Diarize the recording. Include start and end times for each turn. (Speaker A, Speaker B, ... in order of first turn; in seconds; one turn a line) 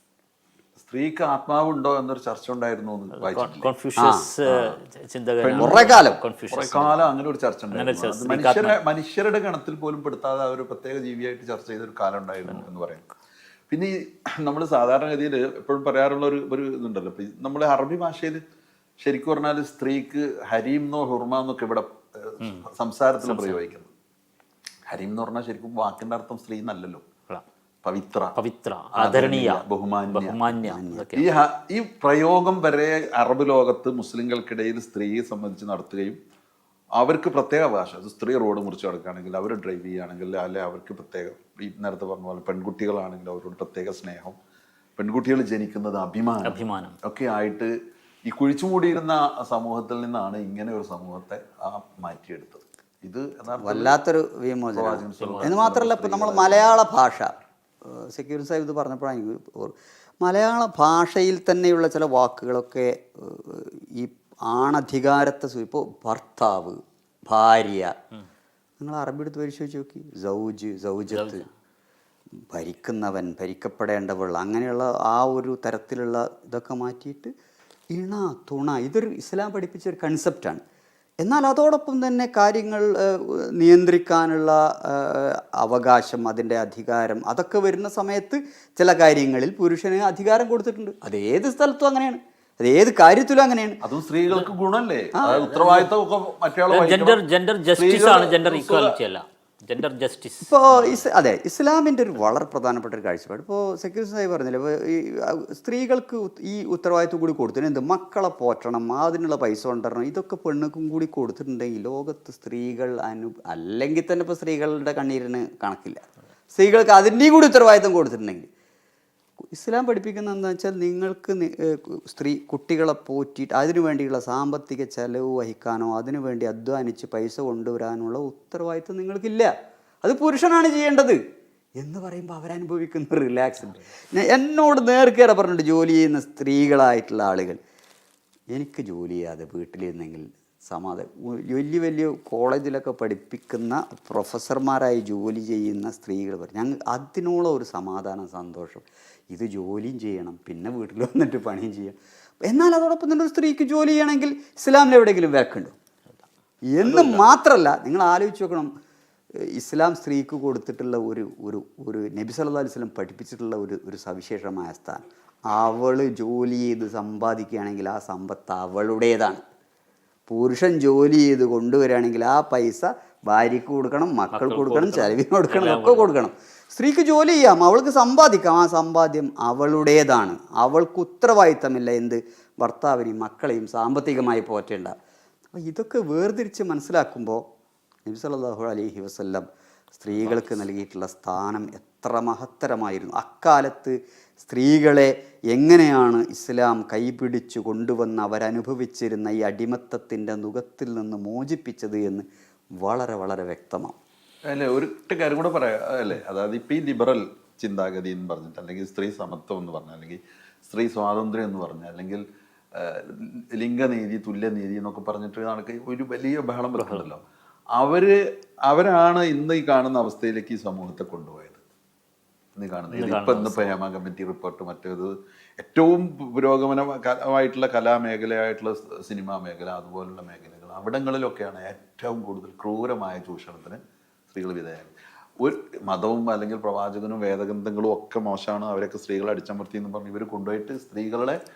Speaker A: 0.8-3.7
Speaker B: 3.1-7.0
Speaker C: 4.0-4.3
Speaker A: 4.5-4.8
Speaker A: 5.4-5.9
Speaker C: 5.6-6.2
Speaker A: 6.5-13.0
Speaker B: 7.7-8.8
Speaker A: 13.7-18.4
Speaker A: 19.0-23.9
Speaker B: 22.4-22.6
Speaker B: 23.2-23.7
Speaker A: 24.9-27.0
Speaker A: 27.8-28.4
Speaker B: 28.3-31.3
Speaker A: 28.9-30.6
Speaker C: 30.6-31.1
Speaker A: 31.1-36.2
Speaker A: 37.0-44.4
Speaker A: 45.0-47.7
Speaker B: 46.4-47.0
Speaker A: 48.2-54.0
Speaker C: 53.6-68.0
Speaker A: 54.7-57.0
Speaker B: 55.2-55.5
Speaker C: 68.8-71.5
Speaker B: 71.1-71.5
Speaker C: 72.4-77.3
Speaker C: 77.9-80.6
Speaker C: 81.2-93.8
Speaker A: 93.8-97.2
Speaker C: 95.1-95.9
Speaker B: 96.7-101.1
Speaker A: 97.7-99.0
Speaker C: 100.4-118.5
Speaker C: 119.5-131.2
Speaker C: 131.8-137.6
Speaker C: 138.5-155.7
Speaker C: 156.7-158.7
Speaker B: 156.9-157.2
Speaker C: 159.3-169.4
Speaker C: 170.3-184.9
Speaker B: 174.3-176.1
Speaker C: 185.5-187.4
Speaker C: 188.1-202.2
Speaker B: 190.1-190.6
Speaker C: 202.8-203.9
Speaker A: 204.5-217.2
Speaker B: 216.8-217.1
Speaker A: 217.7-221.6
Speaker A: 222.6-241.4
Speaker B: 222.9-223.7